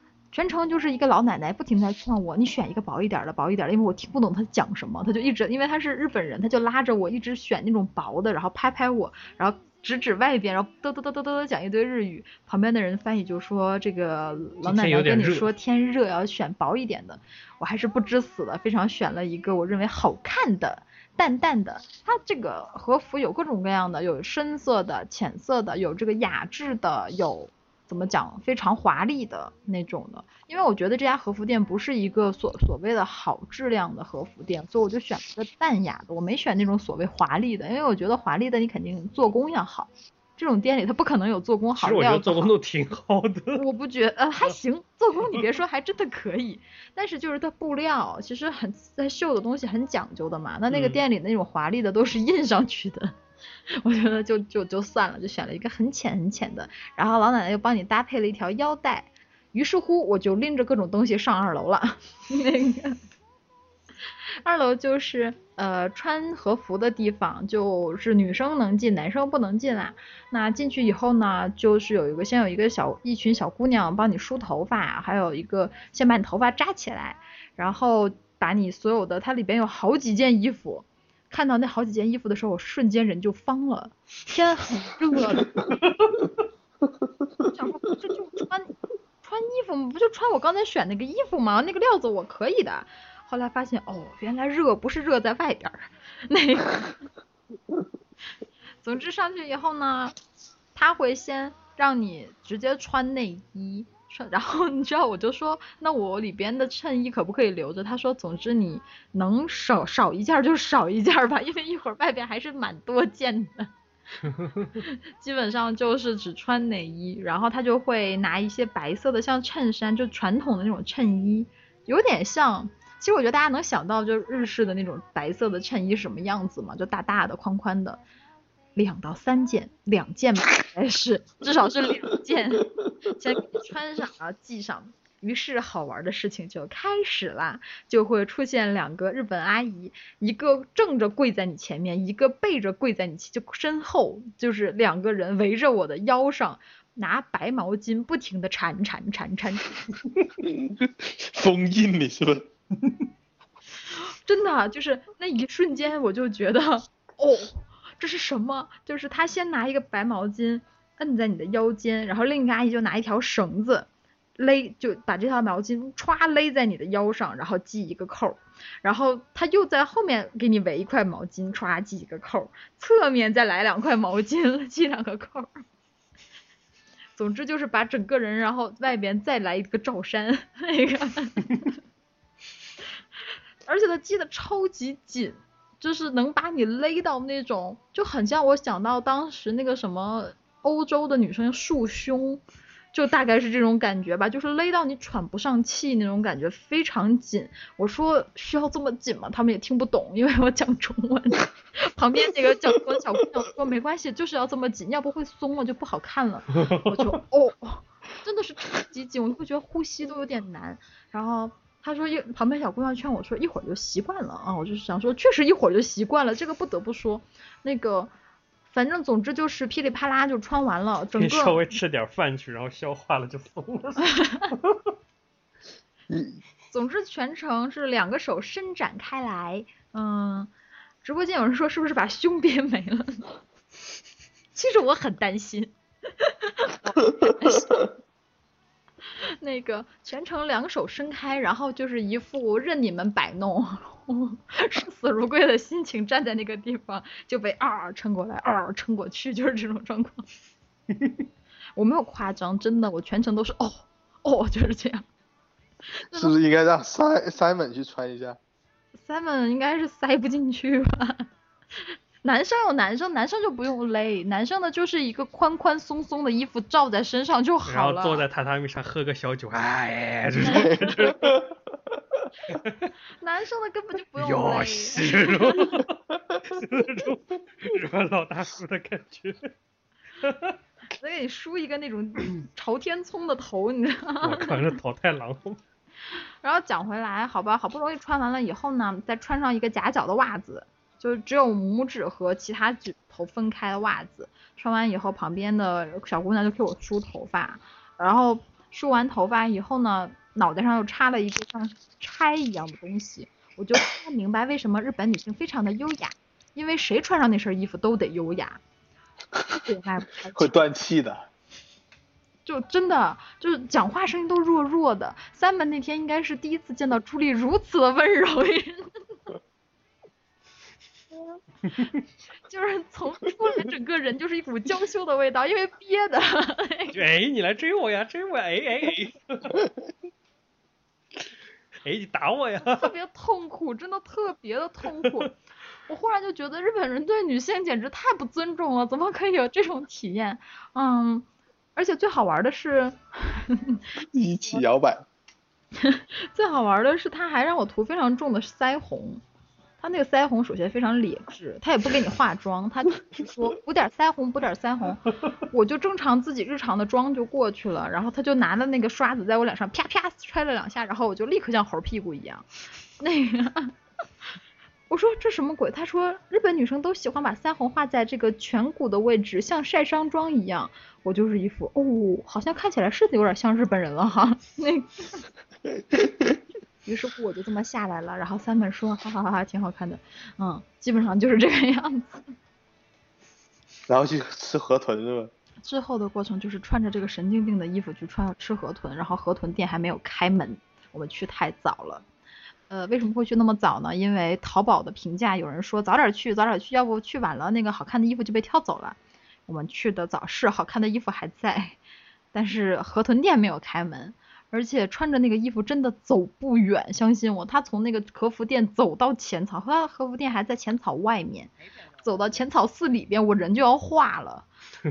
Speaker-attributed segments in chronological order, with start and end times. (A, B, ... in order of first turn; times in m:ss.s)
0:00.3-0:42.5 A
0:14.6-0:15.5 B
0:41.8-0:43.6 B
0:43.5-0:53.1 A
0:50.7-0:51.0 B
0:53.7-1:03.0 A
1:04.4-1:25.6 A
1:27.5-1:36.9 A
1:38.8-1:40.1 A
1:40.7-1:53.7 A
1:54.4-1:54.7 B
1:54.8-2:08.0 A
2:08.8-2:29.7 A
2:30.4-2:32.5 C
2:33.9-2:55.5 A
2:57.2-3:01.7 A
3:03.6-3:12.4 A
3:12.9-3:38.1 A
3:26.6-3:27.2 B
3:38.7-3:41.6 A
3:41.1-3:44.8 B
3:44.2-3:44.4 A
3:46.1-3:46.4 C
3:46.7-3:50.5 A
3:51.0-3:53.2 A
3:54.5-3:57.8 A
3:59.2-4:10.2 A
4:11.8-4:15.0 A
4:16.0-4:16.3 A
4:16.1-4:18.4 C
4:19.0-4:21.3 A
4:21.8-4:28.2 A
4:27.6-4:31.4 B
4:30.4-4:31.5 C
4:30.4-4:30.9 A
4:32.5-4:32.9 B
4:33.2-4:35.8 A
4:34.2-4:39.5 B
4:40.2-4:40.6 B
4:41.0-4:44.7 A
4:44.2-4:45.6 B
4:46.4-5:08.6 A
5:09.5-5:10.6 A
5:10.3-5:11.3 C
5:12.4-5:18.9 A
5:22.5-5:27.0 A
5:26.9-5:29.6 B
5:31.8-5:32.9 B
5:32.6-5:35.3 A
5:35.9-5:43.8 A
5:44.1-5:45.0 C
5:45.8-5:49.2 A
5:49.8-6:02.4 A
6:03.0-6:03.7 A
6:04.9-6:15.2 A
6:15.9-6:16.3 C
6:16.8-6:22.2 A
6:23.9-6:25.3 C
6:25.6-6:32.0 A
6:32.7-6:41.8 A
6:42.3-6:54.5 A